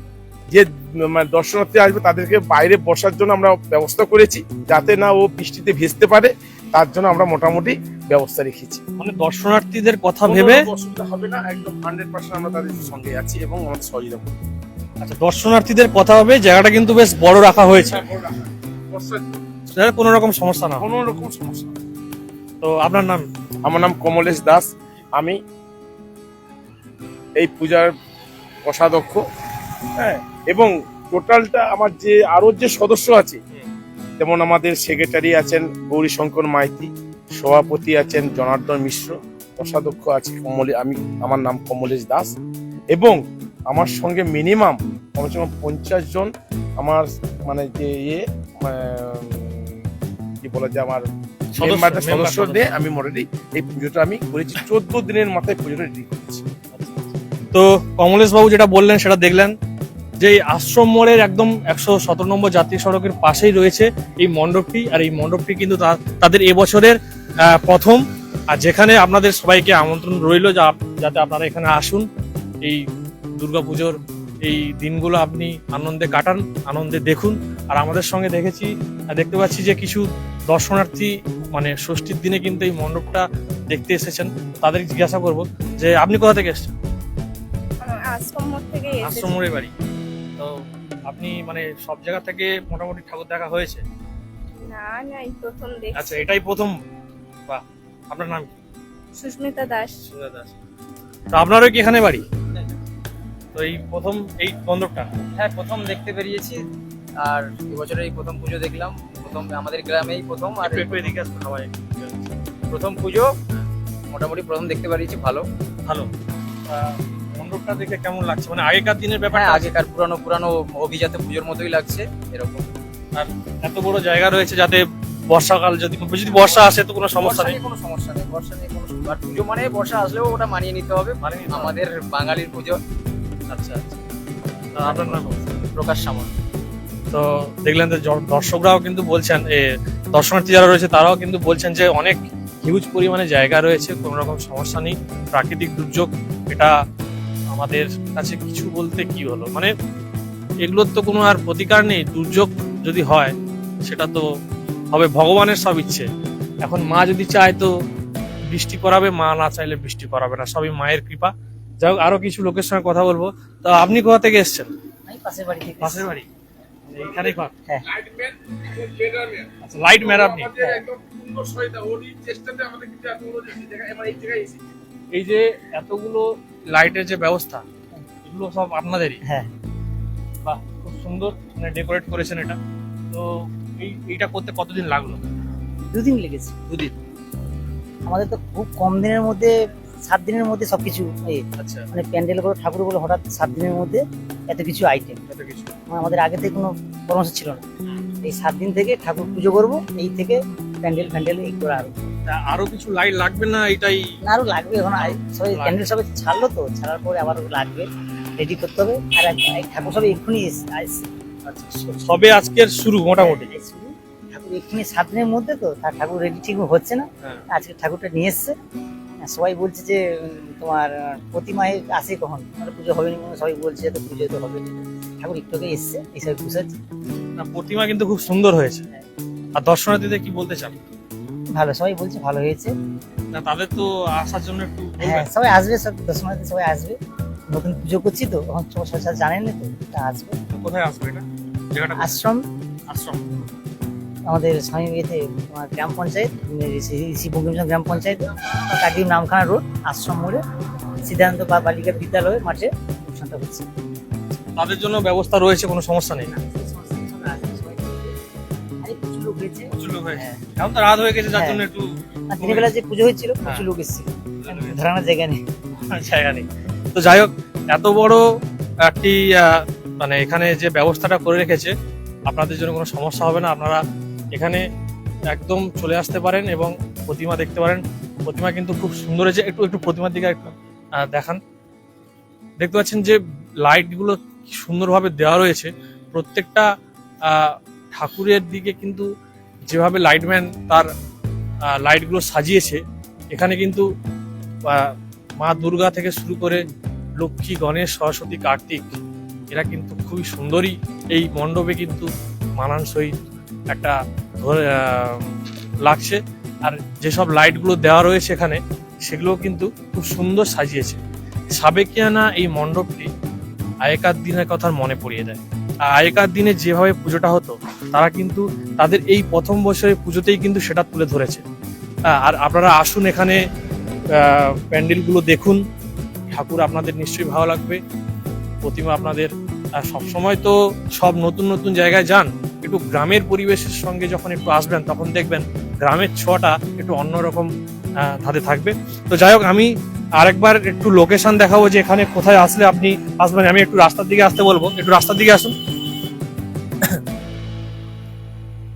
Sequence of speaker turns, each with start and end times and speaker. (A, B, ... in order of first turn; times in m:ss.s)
0:00.5-0:08.8 A
0:09.0-0:10.7 B
0:10.2-0:14.4 A
0:15.0-0:18.0 B
0:17.7-0:19.4 A
0:19.7-0:20.8 B
0:20.8-0:21.7 A
0:22.6-0:23.3 B
0:23.6-0:25.4 A
0:27.4-0:27.9 A
0:28.6-0:29.2 A
0:30.0-0:33.4 A
0:34.2-0:42.3 A
0:42.9-0:49.7 A
0:50.4-0:51.0 A
0:51.5-0:52.7 B
0:51.6-0:56.4 A
0:57.5-0:59.5 B
1:00.2-1:12.1 B
1:13.4-1:26.7 B
1:27.8-1:29.4 C
1:29.0-1:29.7 B
1:30.4-1:33.8 B
1:34.6-1:36.2 C
1:35.9-1:36.8 B
1:37.5-1:38.5 B
1:39.1-1:40.0 C
1:40.0-1:40.5 B
1:41.3-1:42.2 B
1:43.5-1:45.1 B
1:45.3-1:46.6 D
1:47.2-1:51.0 D
1:50.6-1:52.3 B
1:52.7-1:53.3 D
1:54.1-1:55.4 D
1:56.7-1:59.7 B
1:59.3-2:02.7 D
2:03.1-2:07.6 B
2:07.2-2:12.8 D
2:11.2-2:11.8 B
2:13.5-2:13.9 B
2:14.8-2:15.3 B
2:14.8-2:16.3 D
2:17.1-2:26.7 B
2:27.5-2:29.7 B
2:30.6-2:34.2 B
2:34.9-2:36.1 B
2:36.6-2:37.7 B
2:38.5-2:44.7 B
2:45.1-2:46.1 E
2:45.8-2:46.2 B
2:46.9-2:47.5 B
2:47.0-2:47.3 A
2:47.8-2:54.6 A
2:49.6-2:50.5 B
2:55.1-2:57.6 B
2:58.2-2:59.2 B
3:00.4-3:02.6 B
3:03.1-3:05.2 B
3:05.9-3:06.5 E
3:06.7-3:06.9 B
3:08.0-3:09.5 E
3:10.0-3:15.2 E
3:11.6-3:11.9 B
3:15.3-3:15.7 B
3:15.9-3:17.6 E
3:18.2-3:22.1 E
3:22.2-3:24.1 B
3:24.2-3:31.0 E
3:25.0-3:25.8 B
3:31.4-3:33.5 B
3:33.2-3:38.5 E
3:39.2-3:46.8 E
3:47.4-3:48.8 B
3:49.5-3:50.8 B
3:51.5-3:52.7 E
3:53.3-3:55.3 B
3:55.0-3:57.0 E
3:57.5-4:00.4 E
4:00.5-4:02.1 B
4:02.0-4:02.4 E
4:02.9-4:03.4 B
4:04.3-4:10.4 E
4:11.0-4:13.7 E
4:14.4-4:16.3 B
4:16.3-4:18.2 E
4:18.8-4:20.4 E
4:19.7-4:22.7 B
4:21.3-4:21.6 E
4:22.3-4:25.4 E
4:24.4-4:24.8 B
4:25.9-4:28.2 B
4:28.8-4:31.7 B
4:32.3-4:34.6 B
4:35.3-4:41.4 B
4:42.6-4:46.7 B
4:47.2-4:49.1 B
4:49.7-4:50.9 B
4:51.7-4:53.9 B
4:54.7-4:56.6 B
4:57.2-4:59.0 B
4:59.5-5:03.1 B
5:03.7-5:05.3 B
5:05.8-5:11.0 B
5:11.5-5:13.1 B
5:13.8-5:21.4 B
5:22.1-5:23.4 B
5:24.1-5:25.6 B
5:26.3-5:27.8 B
5:28.6-5:45.5 B